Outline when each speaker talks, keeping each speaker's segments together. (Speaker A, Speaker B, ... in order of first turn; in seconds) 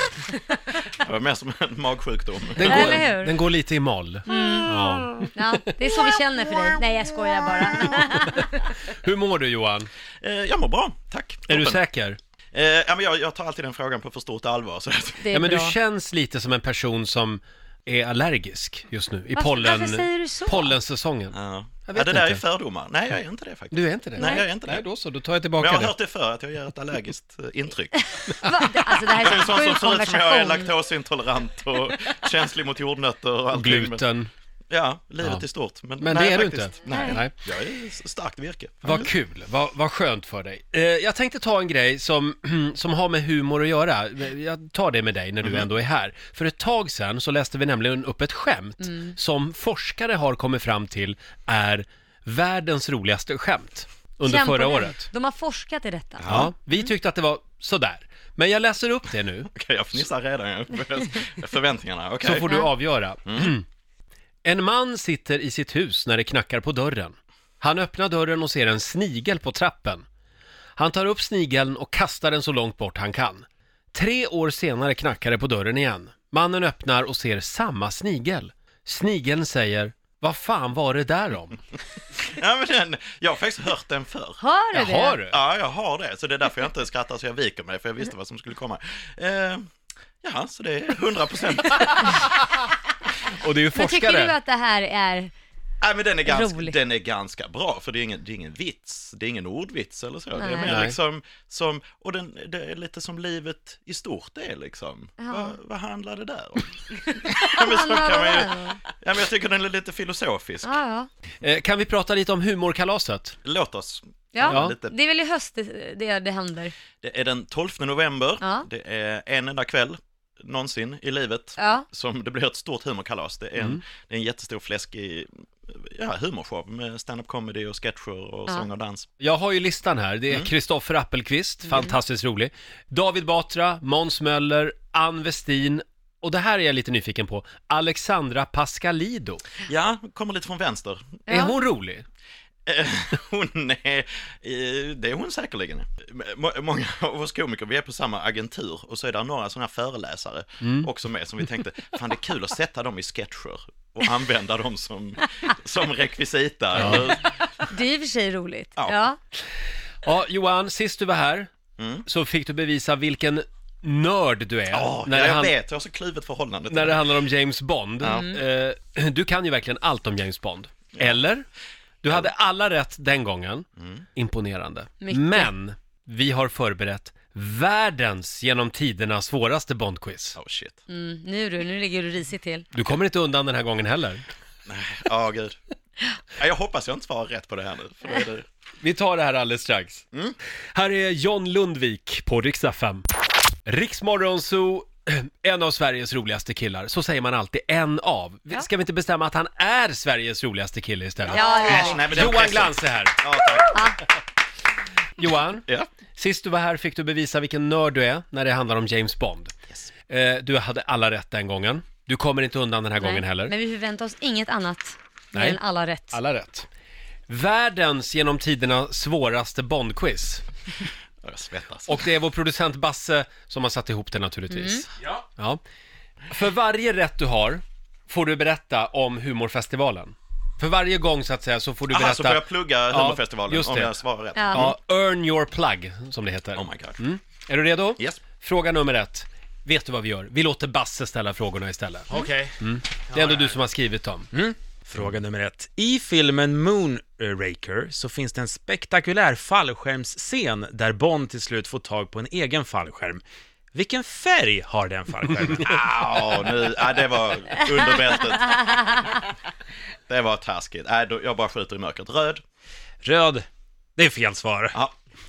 Speaker A: 0.9-3.0, 10.2-11.8, 12.5-15.2, 21.3-24.8, 25.6-28.1, 29.1-34.1, 34.7-39.1, 56.2-56.5, 59.5-62.5, 63.3-63.5, 82.2-84.4, 85.3-89.7, 90.2-92.3, 95.8-110.8, 113.5-115.0, 117.0-129.1, 139.7-141.2, 142.7-157.4, 161.8-162.1, 164.7-167.1, 168.0-168.4, 173.8-174.1, 180.4-180.8, 184.7-185.6, 186.4-188.4, 201.5-203.8, 221.2-222.0, 231.9-234.8, 236.6-237.0, 255.6-259.0, 260.1-262.4
Speaker B: 2.6-5.4, 7.8-9.9, 11.5-12.2, 15.3-22.4, 23.7-25.9, 33.5-34.3, 36.0-37.3, 38.8-55.1, 56.3-59.5, 62.2-63.6, 64.5-70.1, 70.8-81.6, 84.7-85.4, 93.3-94.3, 100.7-101.0, 111.4-113.4, 114.5-114.7, 129.2-139.4, 141.3-142.1, 150.6-150.9, 156.8-157.1, 160.0-161.5, 162.1-165.5, 166.7-171.4, 172.0-180.4, 182.7-184.2, 188.8-190.0, 190.7-193.1, 193.7-203.2, 205.2-209.5, 210.1-213.5, 216.1-216.7, 217.3-220.4, 221.9-225.6, 226.3-233.9, 234.5-244.3
Speaker C: 2.6-3.3, 4.3-4.7, 5.3-8.5, 15.2-15.8, 19.4-20.7, 28.4-30.7, 36.9-37.2, 54.2-56.3, 84.4-85.2, 93.7-95.3, 96.3-96.8, 100.4-100.7, 105.2-105.5, 107.1-108.8, 110.6-111.1, 114.3-116.7, 121.6-121.9, 141.3-141.5, 157.7-159.2, 168.1-168.3, 175.0-175.5, 180.9-182.7, 201.3-202.1, 203.7-204.0, 213.0-216.2, 224.5-224.8, 234.4-234.7, 258.7-259.1
Speaker D: 242.1-243.6, 244.3-253.2, 253.7-255.8, 263.0-263.5, 264.0-264.8